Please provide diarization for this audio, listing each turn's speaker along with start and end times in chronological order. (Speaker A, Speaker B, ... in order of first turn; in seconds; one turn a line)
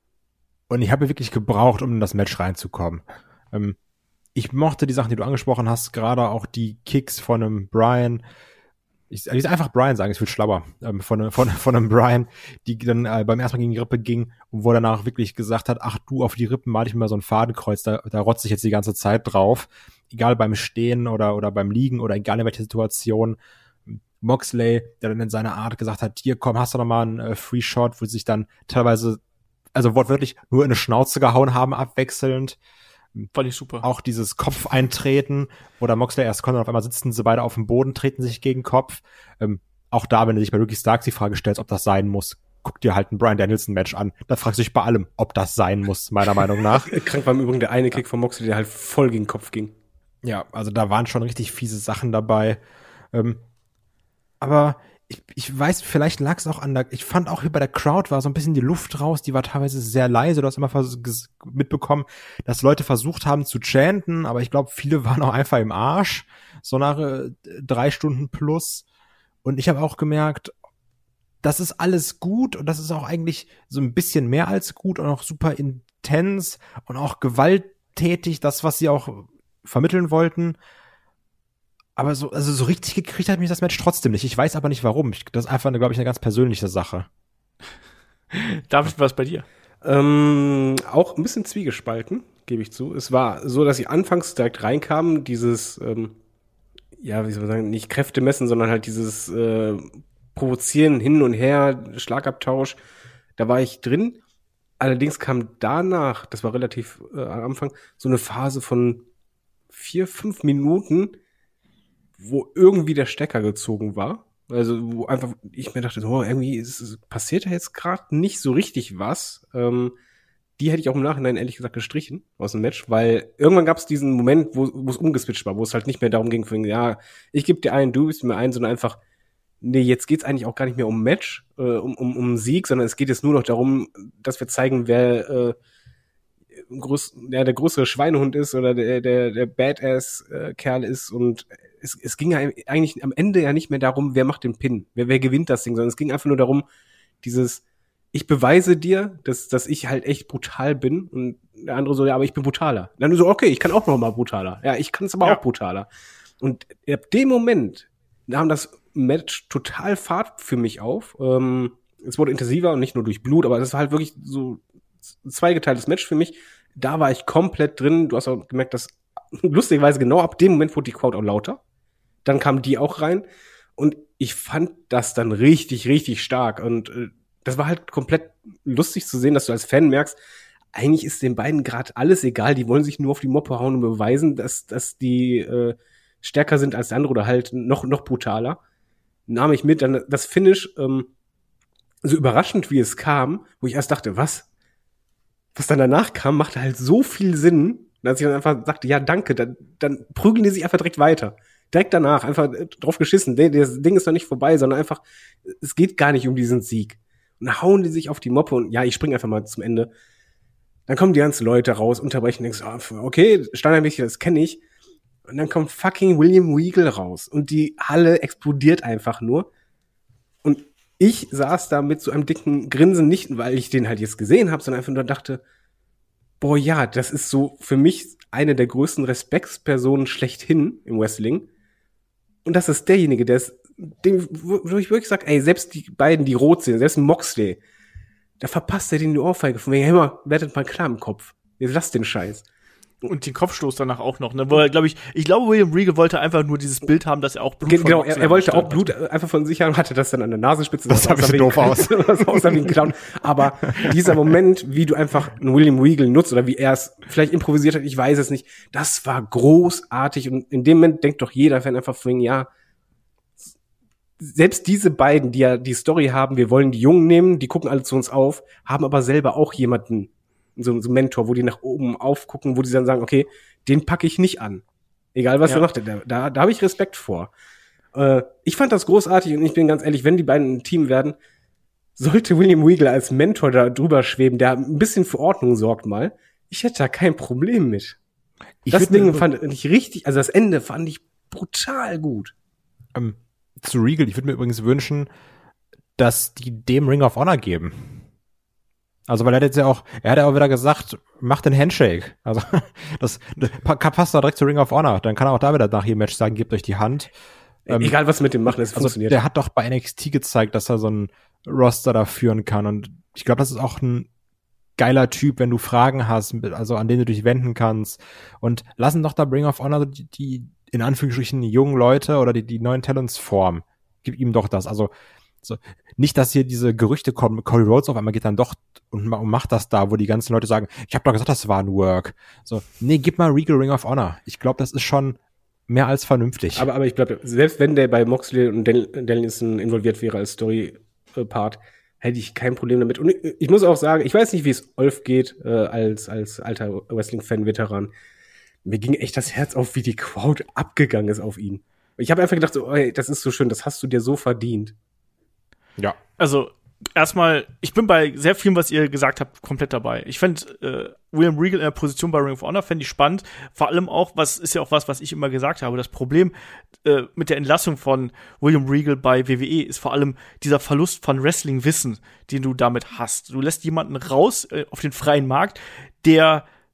Speaker A: 0.7-3.8
Speaker A: 4.3-8.2
Speaker A: 9.1-29.2
Speaker A: 29.7-32.6
Speaker B: 33.3-33.8
Speaker A: 33.8-47.0
Speaker C: 46.9-49.7
Speaker A: 50.2-52.6
Speaker A: 53.1-53.4
Speaker A: 54.4-68.8
Speaker A: 69.4-70.5
Speaker A: 71.4-80.6
Speaker A: 82.0-87.1
Speaker B: 88.3-89.4
Speaker C: 89.8-96.2
Speaker C: 97.0-102.8
Speaker C: 103.4-104.2
Speaker C: 104.8-109.0
Speaker C: 109.7-111.1
Speaker C: 112.2-119.9
Speaker C: 120.6-129.0
Speaker C: 129.6-135.6
Speaker C: 136.7-146.6
Speaker C: 147.2-147.6
Speaker C: 148.1-155.9
Speaker C: 156.4-164.6
Speaker C: 165.2-171.6
Speaker C: 172.2-173.2
Speaker C: 173.8-180.2
Speaker C: 180.7-188.6
Speaker C: 189.3-191.1
Speaker C: 192.0-194.5
Speaker C: 195.5-209.9
Speaker C: 210.9-214.6
Speaker C: 215.3-219.5
Speaker C: 220.4-225.4
Speaker C: 226.4-231.5
Speaker C: 232.4-237.6
Speaker C: 238.4-242.4
Speaker B: 243.0-248.9
Speaker C: 247.6-262.5
Speaker A: 250.9-252.8
Speaker C: 264.2-274.6
Speaker C: 275.1-277.3
Speaker C: 277.9-281.1
Speaker C: 282.0-288.0
Speaker A: 288.6-289.2
Speaker C: 288.7-292.3
Speaker A: 292.9-295.1
Speaker A: 296.0-298.0
Speaker A: 299.1-307.1
Speaker C: 307.6-309.2
Speaker A: 307.7-307.9
Speaker A: 308.5-314.1
Speaker A: 314.8-324.9
Speaker A: 325.4-336.7
Speaker C: 336.5-347.9
Speaker C: 348.6-354.7
Speaker B: 356.2-376.4